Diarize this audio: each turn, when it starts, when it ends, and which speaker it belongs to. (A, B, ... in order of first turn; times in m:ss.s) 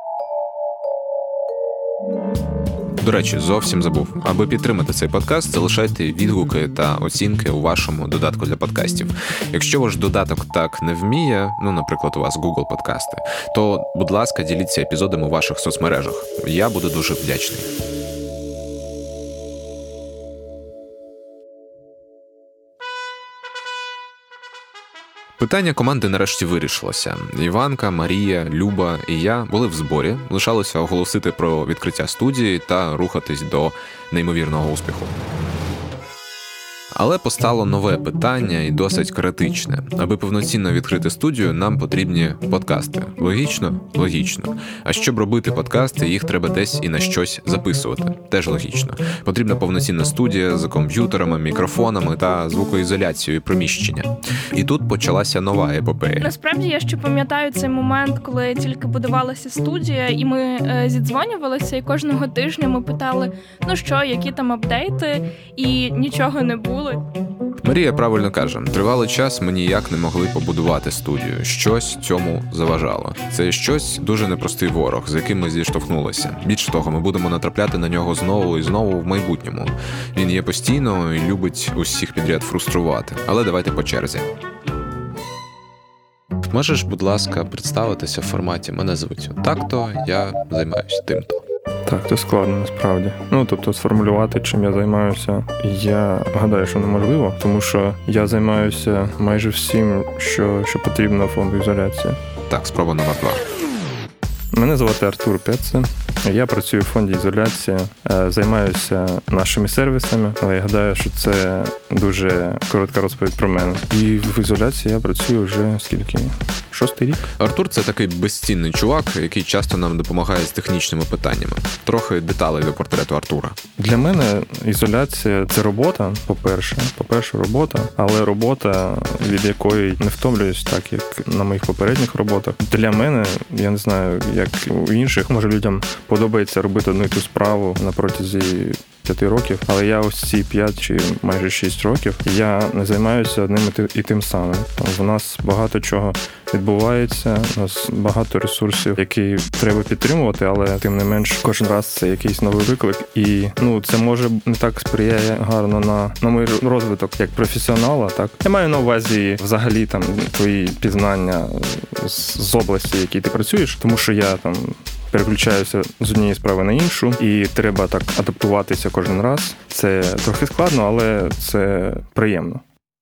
0:03.0-0:17.7 A
0:25.4-0:35.2 A
0:37.0-0:56.3 A
0:56.2-1:07.0 B
1:07.6-1:24.3 A
1:26.5-1:31.4 A
1:31.8-1:42.2 C
1:42.5-1:43.4 A
1:44.5-1:57.2 C
1:57.4-2:03.6 A
2:03.8-2:52.6 C